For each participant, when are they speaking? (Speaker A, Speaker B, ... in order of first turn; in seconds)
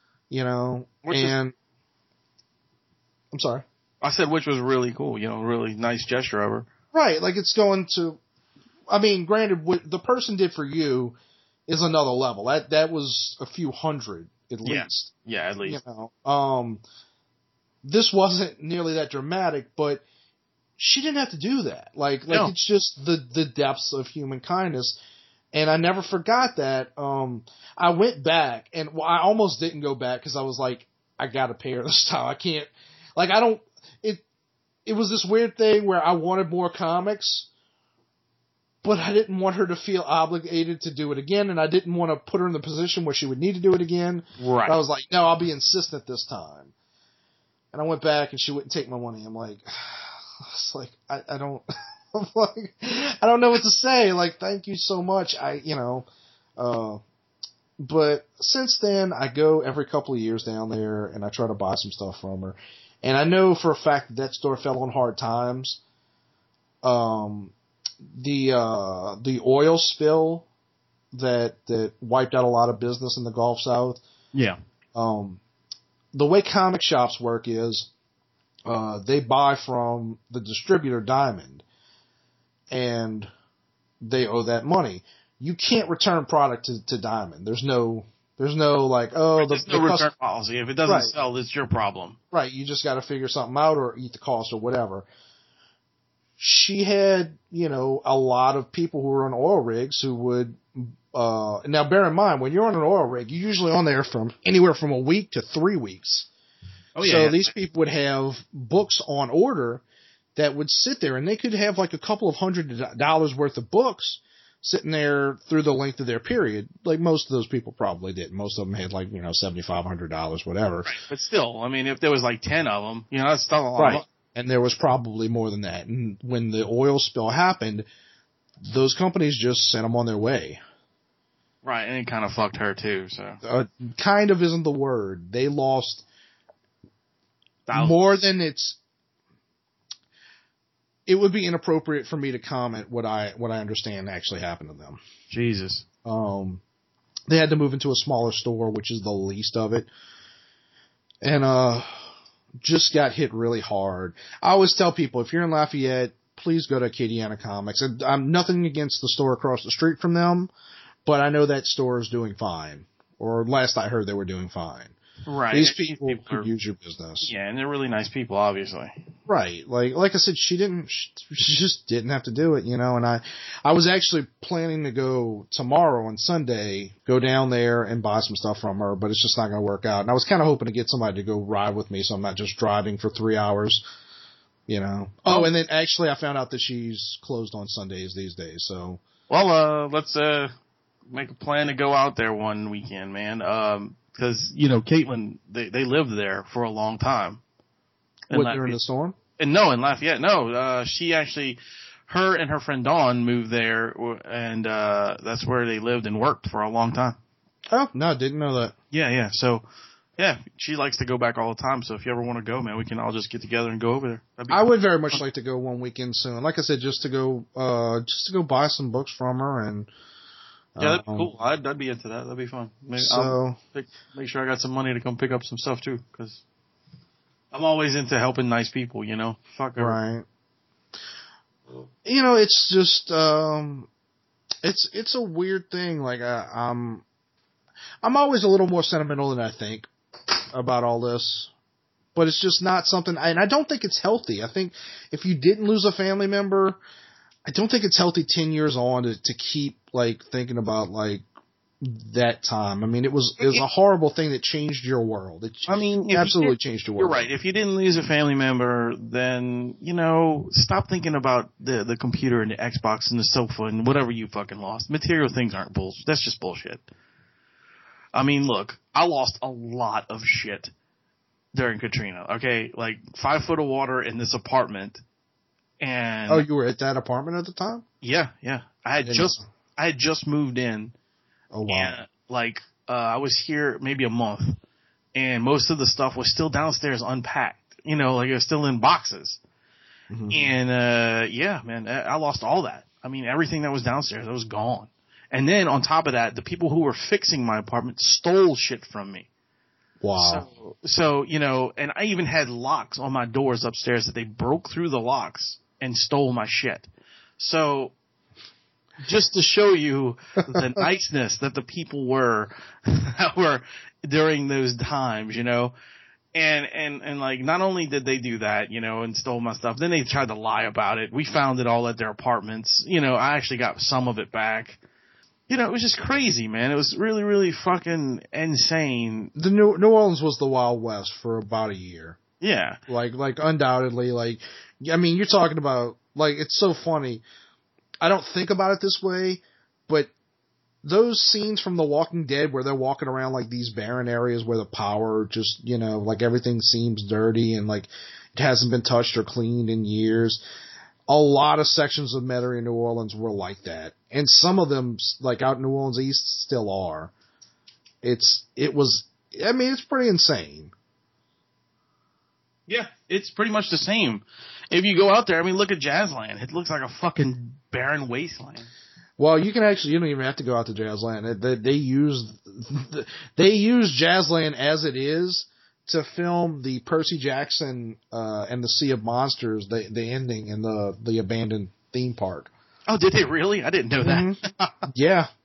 Speaker A: 0.3-1.6, 3.3-3.6, 6.9-8.2, 8.9-15.1, 15.7-16.8, 17.8-20.0, 20.8-25.0, 25.5-34.2, 34.9-37.5, 38.8-46.7, 47.7-57.0, 57.8-65.8, 66.8-67.5, 68.1-70.5, 71.1-74.0, 75.0-75.4, 76.1-77.9, 78.7-81.6, 82.7-83.3, 84.0-90.1, 90.9-91.1, 92.3-95.0, 96.4-106.3, 107.0-109.8, 110.4-120.9, 123.8-127.9, 128.6-130.6, 133.4-136.1, 137.7-138.8, 141.1-145.0, 146.1-146.6, 147.3-149.9, 151.2-152.0, 152.6-160.5, 161.1-164.9, 165.5-167.3, 169.3-183.8, 184.7-189.0, 198.3-199.2, 207.7-208.7, 214.5-219.9, 220.8-221.3, 223.0-223.6, 229.8-230.3, 232.1-233.9, 234.6-237.0, 238.0-239.9, 240.5-241.5, 242.2-246.8, 247.5-251.2, 251.8-257.3, 276.3-277.9, 279.0-279.4, 281.5-282.0, 290.1-290.5, 300.0-300.4, 329.4-332.2, 332.9-337.2, 338.0-340.1, 340.8-350.4, 351.1-357.1, 358.0-360.7, 369.2-382.5, 384.0-385.3
Speaker B: 1.0-1.3, 4.0-6.7, 14.6-15.8, 44.4-44.8, 89.4-92.2, 107.0-107.5, 120.9-124.0, 131.6-133.4, 137.7-138.0, 145.3-145.8, 165.3-166.5, 167.2-168.9, 185.3-185.5, 189.3-190.5, 191.1-197.4, 198.3-198.8, 199.4-207.2, 208.9-209.7, 210.2-215.2, 220.8-226.4, 227.5-230.0, 255.7-266.8, 268.1-270.7, 271.5-275.0, 275.8-276.4, 278.0-280.9, 281.7-284.6, 285.1-289.4, 290.3-299.3, 300.2-307.9, 309.0-315.7, 316.3-324.8, 325.5-329.3, 332.4-332.8, 362.7-368.7, 382.9-384.9